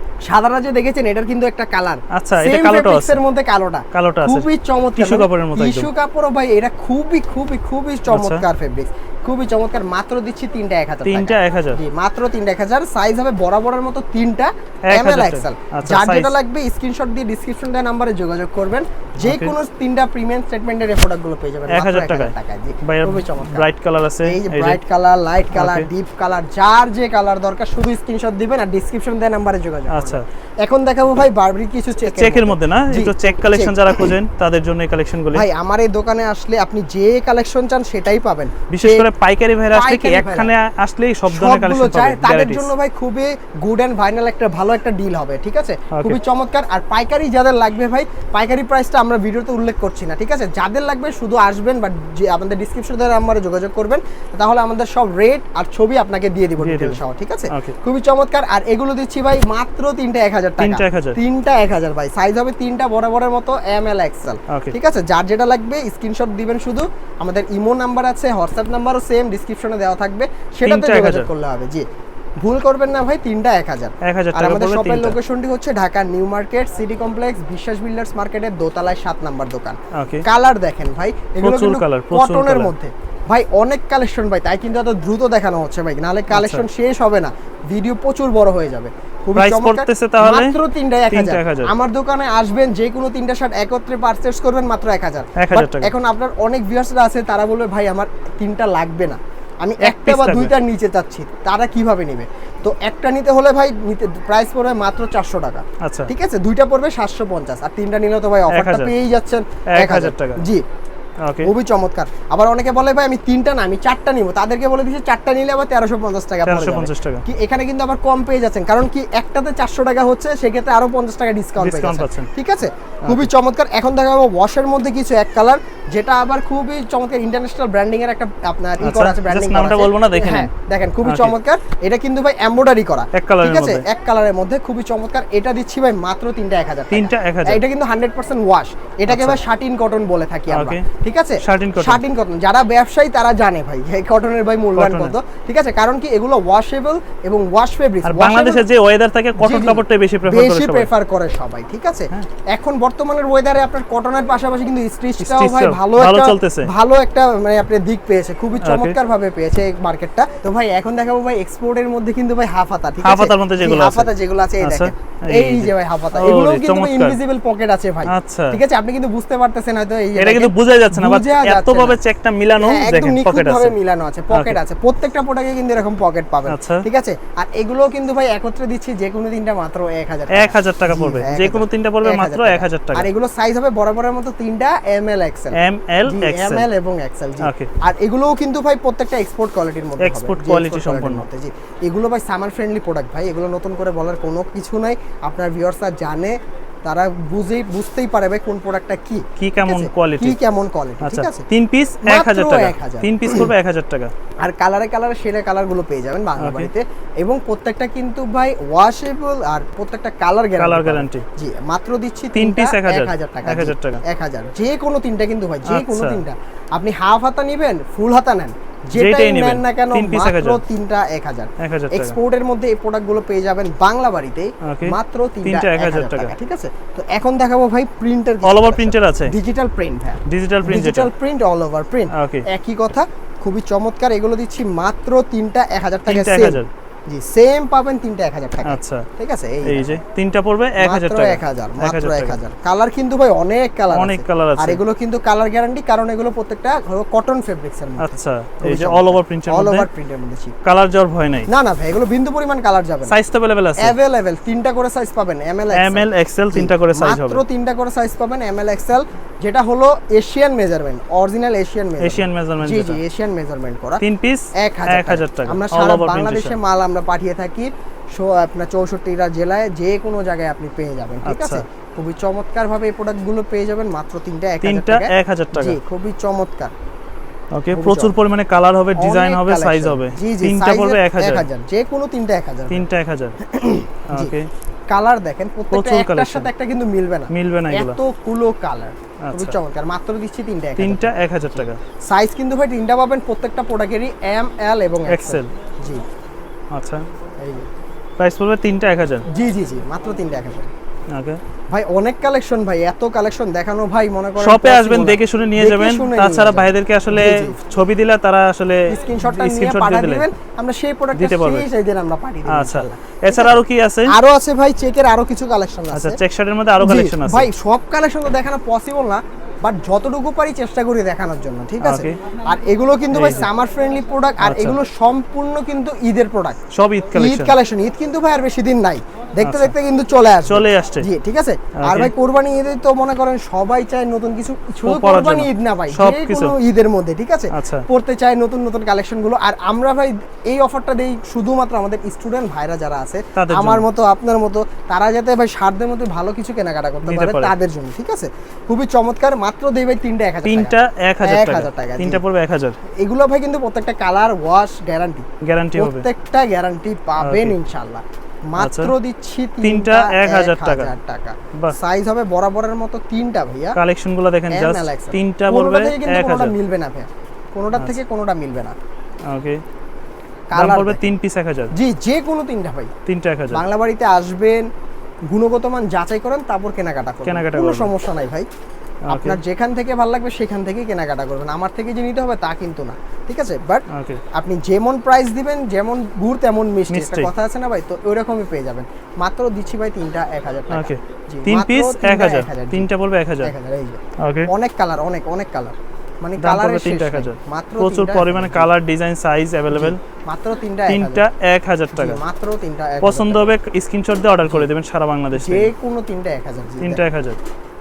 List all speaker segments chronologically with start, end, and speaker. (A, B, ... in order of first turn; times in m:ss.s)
0:00.2-0:23.7 A
0:02.1-0:03.2 B
0:03.9-0:05.9 B
0:08.1-0:08.4 B
0:11.0-0:11.8 B
0:14.9-0:16.3 B
0:19.2-0:19.5 B
0:21.7-0:24.8 B
0:24.2-0:34.1 A
0:25.5-0:25.9 B
0:29.9-0:30.2 B
0:32.0-0:35.4 B
0:35.3-0:39.1 A
0:38.7-0:42.7 B
0:39.7-0:40.5 A
0:41.3-1:11.8 A
0:45.9-0:46.2 B
0:56.6-0:57.0 B
0:57.5-0:57.8 B
1:00.6-1:01.2 B
1:04.5-1:04.7 B
1:10.6-1:11.3 B
1:12.4-1:50.6 A
1:14.0-1:15.2 B
1:19.9-1:20.2 B
1:21.4-1:22.7 B
1:26.3-1:26.6 B
1:29.4-1:30.5 B
1:31.1-1:31.7 B
1:35.4-1:35.9 B
1:39.8-1:40.5 B
1:45.8-1:46.1 B
1:48.5-1:48.9 B
1:49.7-1:50.4 B
1:51.2-1:51.5 B
1:51.4-2:28.6 A
1:56.4-1:57.2 B
2:01.6-2:02.3 B
2:08.8-2:10.5 B
2:11.0-2:11.3 B
2:13.1-2:13.8 B
2:16.9-2:17.6 B
2:19.1-2:19.4 B
2:20.5-2:20.8 B
2:21.4-2:22.0 B
2:24.7-2:25.1 B
2:28.0-2:30.9 B
2:29.4-2:52.0 A
2:35.2-2:36.7 B
2:38.6-2:39.0 B
2:43.0-2:47.2 B
2:48.1-2:48.6 B
2:50.2-2:53.7 B
2:52.6-3:21.4 A
2:54.3-2:54.6 B
2:56.5-2:56.8 B
3:00.3-3:03.1 B
3:05.6-3:06.7 B
3:07.4-3:07.7 B
3:10.0-3:11.2 B
3:19.4-3:20.4 B
3:21.0-3:24.1 B
3:22.0-3:23.5 A
3:24.4-4:00.0 A
3:26.4-3:26.7 B
3:30.6-3:31.2 B
3:32.3-3:34.0 B
3:35.6-3:36.2 B
3:38.9-3:40.6 B
3:41.6-3:42.2 B
3:44.6-3:46.3 B
3:48.4-3:49.3 B
3:50.3-3:51.1 B
3:52.1-3:52.4 B
3:56.1-3:56.7 B
3:58.6-3:59.1 B
3:59.6-4:02.4 B
4:00.8-4:10.5 A
4:03.9-4:04.8 B
4:08.0-4:09.9 B
4:10.6-4:11.5 B
4:11.5-4:13.1 A
4:13.1-4:14.0 B
4:13.8-4:24.0 A
4:15.7-4:17.4 B
4:22.0-4:23.0 B
4:24.0-4:26.6 B
4:24.6-4:36.7 A
4:31.2-4:31.6 B
4:34.6-4:35.8 B
4:37.5-4:41.4 B
4:37.7-4:38.1 A
4:39.0-4:42.8 A
4:42.7-4:43.4 B
4:43.4-4:44.3 A
4:44.1-4:44.5 B
4:44.9-4:56.0 A
4:45.7-4:46.5 B
4:47.3-4:48.0 B
4:49.2-4:49.6 B
4:50.8-4:51.8 B
4:55.1-4:55.5 B
4:56.7-4:57.0 B
4:58.2-4:59.2 B
4:59.3-5:00.7 A
5:01.1-5:01.4 B
5:01.7-5:07.5 A
5:04.4-5:10.2 B
5:08.9-5:16.2 A
5:11.1-5:11.7 B
5:12.5-5:14.1 B
5:15.9-5:17.5 B
5:16.8-5:26.6 A
5:21.8-5:22.2 B
5:23.1-5:23.5 B
5:24.4-5:24.8 B
5:26.7-5:27.5 B
5:27.1-5:52.2 A
5:29.4-5:29.7 B
5:30.5-5:31.1 B
5:31.8-5:32.1 B
5:34.8-5:36.5 B
5:37.5-5:37.8 B
5:43.4-5:43.8 B
5:47.0-5:47.5 B
5:50.4-5:52.8 B
5:53.0-6:03.8 A
5:55.4-5:56.1 B
5:57.2-5:57.6 B
5:58.6-5:58.9 B
5:59.6-6:00.9 B
6:03.8-6:06.5 B
6:04.5-6:08.8 A
6:09.3-6:09.6 B
6:10.5-6:11.0 A
6:10.5-6:11.7 B
6:11.7-6:12.9 A
6:13.1-6:13.6 B
6:13.5-6:14.7 A
6:15.3-6:18.5 A
6:17.2-6:17.9 B
6:19.1-6:19.4 B
6:19.1-6:32.9 A
6:23.9-6:24.2 B
6:26.9-6:27.3 B
6:30.7-6:33.5 B
6:33.4-6:38.7 A
6:34.2-6:34.5 B
6:36.4-6:40.0 B
6:39.7-6:41.2 A
6:40.9-6:42.2 B
6:41.9-6:43.6 A
6:43.0-6:45.7 B
6:45.3-6:47.0 A
6:46.8-6:47.4 B